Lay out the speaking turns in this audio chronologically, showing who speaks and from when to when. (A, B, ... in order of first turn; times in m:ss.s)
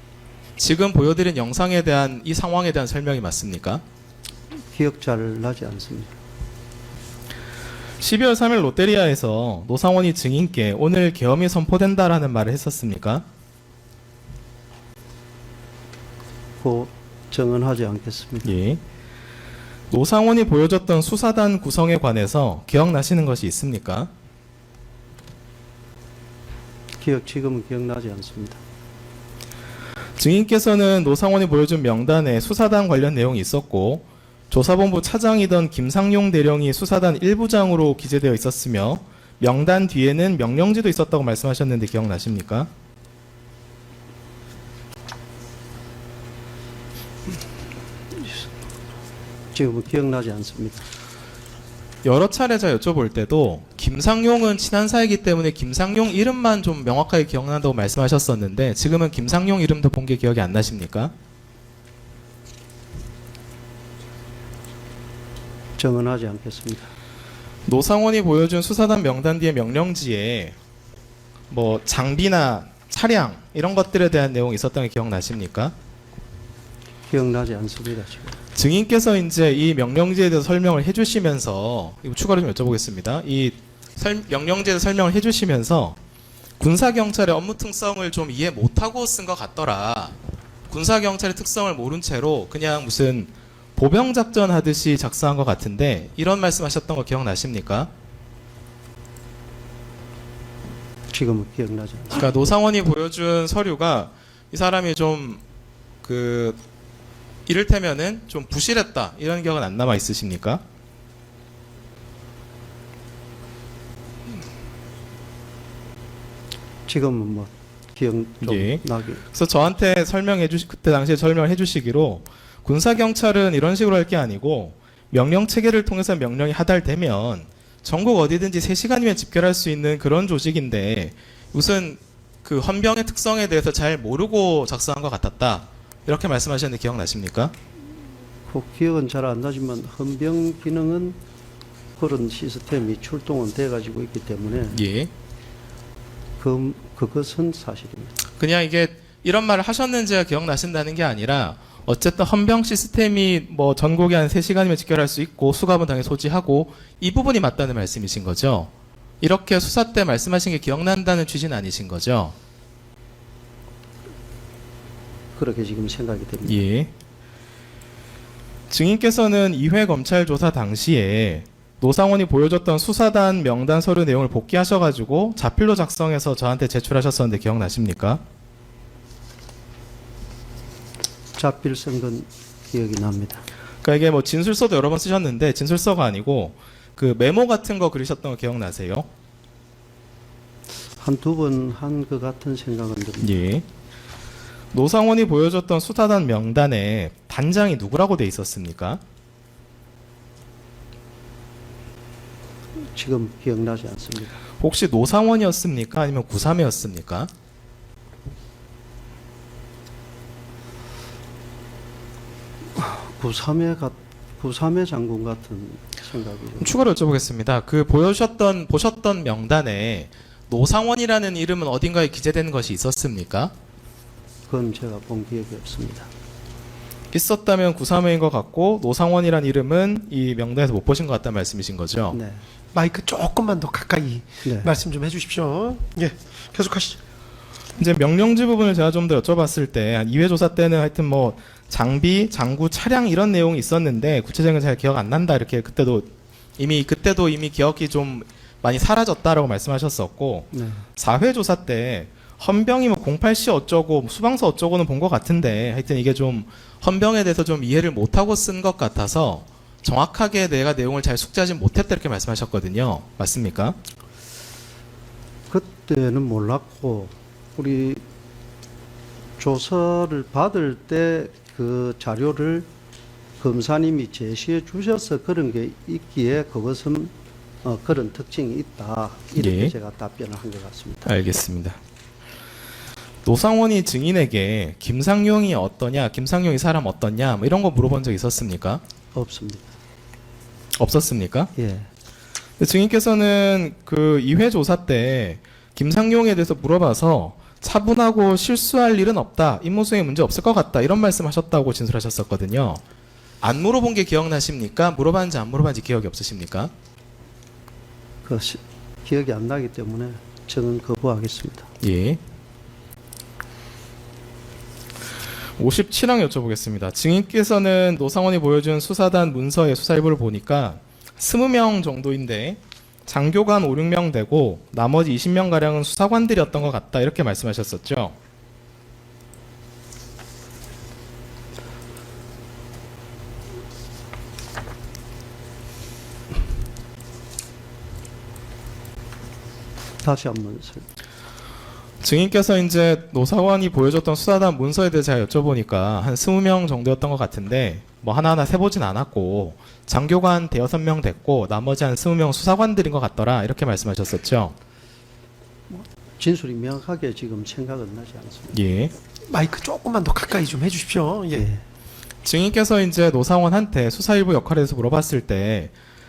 0:00.6-0:03.8 A
0:04.7-0:06.1 B
0:08.0-0:13.2 A
0:16.6-0:18.5 B
0:18.4-0:18.8 A
0:19.9-0:24.1 A
0:27.0-0:28.6 B
0:30.2-0:42.7 A
0:49.5-0:50.8 B
0:52.0-1:01.1 A
1:05.8-1:06.9 B
1:07.7-1:10.5 A
1:11.5-1:15.7 A
1:17.1-1:18.4 B
1:18.5-1:26.0 A
1:26.6-1:30.2 A
1:30.7-1:37.9 A
1:41.1-1:42.3 B
1:42.1-1:45.4 A
1:46.0-1:46.6 A
1:47.5-1:50.6 A
1:56.9-1:59.2 B
1:58.4-2:17.5 A
2:18.5-2:21.2 B
2:22.0-2:24.8 B
2:24.7-2:25.1 A
2:26.4-2:28.1 B
2:28.4-2:42.3 A
2:45.4-2:46.6 B
2:46.4-2:46.9 A
2:48.7-2:58.2 A
3:01.4-3:03.4 B
3:03.8-3:09.1 A
3:10.9-3:13.3 B
3:13.2-3:13.6 A
3:14.7-3:19.0 A
3:22.9-3:24.3 B
3:24.6-3:27.3 A
3:32.8-3:36.7 B
3:36.6-3:43.5 A
3:44.5-3:46.1 B
3:47.1-3:52.2 A
3:52.1-3:52.4 B
3:52.7-3:57.0 C
3:54.4-3:54.7 B
3:57.8-4:23.8 A
4:10.5-4:10.8 B
4:25.5-4:28.0 B
4:29.4-4:32.7 B
4:33.4-4:41.1 B
4:39.4-4:39.7 A
4:41.0-4:41.8 A
4:43.2-4:48.8 A
4:49.1-4:49.6 B
4:50.8-4:51.5 A
4:51.6-4:51.9 B
4:52.6-5:02.8 A
5:03.4-5:06.7 A
5:08.2-5:11.7 B
5:11.8-5:12.2 A
5:15.6-5:28.2 A
5:40.0-5:40.8 B
5:42.0-5:54.6 A
5:55.7-5:58.6 B
5:58.5-5:58.9 A
5:59.3-6:01.4 C
6:01.3-6:01.6 B
6:02.2-6:05.7 A